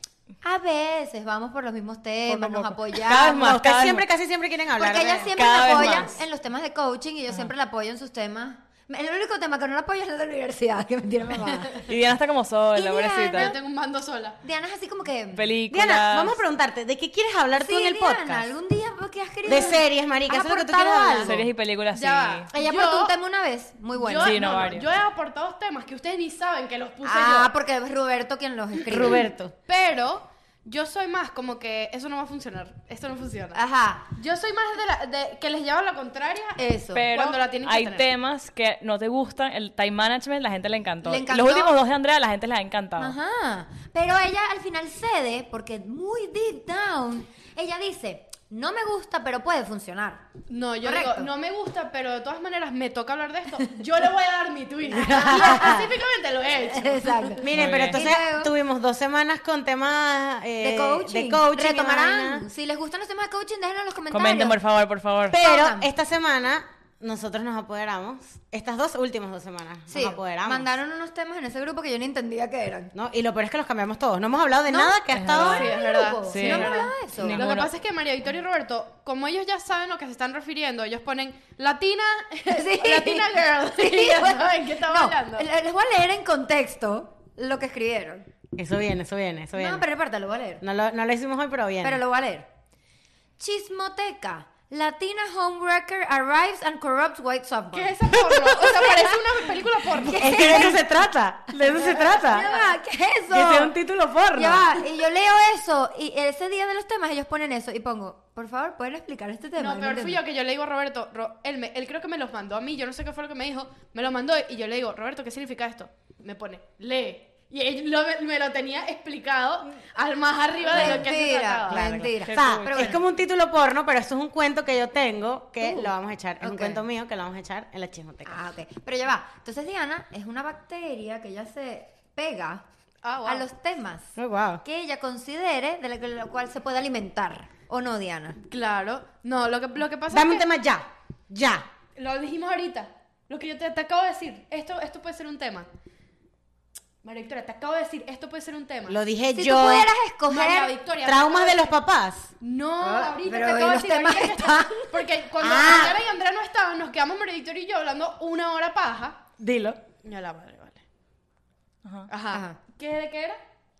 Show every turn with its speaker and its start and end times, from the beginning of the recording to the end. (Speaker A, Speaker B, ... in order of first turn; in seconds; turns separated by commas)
Speaker A: 0.4-3.5, Speaker B: 2.3-4.1, Speaker C: 3.2-6.1, Speaker A: 4.8-11.9, Speaker B: 5.3-6.1, Speaker B: 11.8-13.6, Speaker A: 12.8-13.6, Speaker D: 13.3-14.4, Speaker A: 14.4-15.5, Speaker B: 15.3-16.4, Speaker C: 15.7-18.5, Speaker A: 17.5-21.4, Speaker C: 19.5-21.4, Speaker B: 21.2-22.5, Speaker D: 21.9-23.1, Speaker A: 22.5-24.4, Speaker D: 24.0-27.5, Speaker B: 24.2-24.9, Speaker A: 27.0-29.3, Speaker C: 28.9-29.5, Speaker D: 29.7-33.6, Speaker A: 33.5-34.1, Speaker D: 34.2-38.1, Speaker A: 36.6-37.0, Speaker B: 36.9-43.1, Speaker A: 41.0-41.8, Speaker A: 43.0-50.2, Speaker D: 50.5-57.5, Speaker A: 50.8-51.3, Speaker C: 54.9-55.9, Speaker A: 55.0-55.8, Speaker A: 56.6-58.5, Speaker C: 57.4-62.5, Speaker B: 57.5-58.0, Speaker A: 60.6-64.6, Speaker B: 64.1-65.4, Speaker C: 65.3-70.7, Speaker A: 65.4-65.9, Speaker A: 69.9-72.9, Speaker C: 72.9-75.7, Speaker A: 74.7-77.4, Speaker B: 75.1-75.7, Speaker D: 75.3-85.5, Speaker B: 76.2-77.7, Speaker A: 82.5-88.3, Speaker C: 88.5-89.8, Speaker A: 89.6-90.6, Speaker C: 90.6-92.0, Speaker A: 91.8-92.5, Speaker A: 93.4-99.2, Speaker D: 97.7-100.6, Speaker A: 99.9-100.8, Speaker C: 100.1-102.5, Speaker D: 101.7-102.7, Speaker A: 101.7-103.8, Speaker C: 103.3-104.8, Speaker A: 104.3-110.2, Speaker D: 109.6-122.0, Speaker A: 120.7-123.0, Speaker C: 120.7-121.0, Speaker C: 121.7-128.4, Speaker B: 122.2-123.0, Speaker A: 125.6-126.8, Speaker A: 128.2-132.6, Speaker D: 133.0-133.4, Speaker A: 133.2-138.4, Speaker C: 134.2-134.6, Speaker D: 138.5-140.5, Speaker C: 140.1-141.7, Speaker D: 142.0-145.7, Speaker D: 147.0-149.0, Speaker C: 148.9-149.9, Speaker A: 149.3-150.8, Speaker D: 150.3-151.8, Speaker C: 151.0-152.3, Speaker D: 152.4-159.2, Speaker A: 152.8-154.9, Speaker C: 155.4-156.0, Speaker C: 159.4-159.8, Speaker D: 160.0-160.8, Speaker D: 162.1-163.4, Speaker A: 162.3-162.6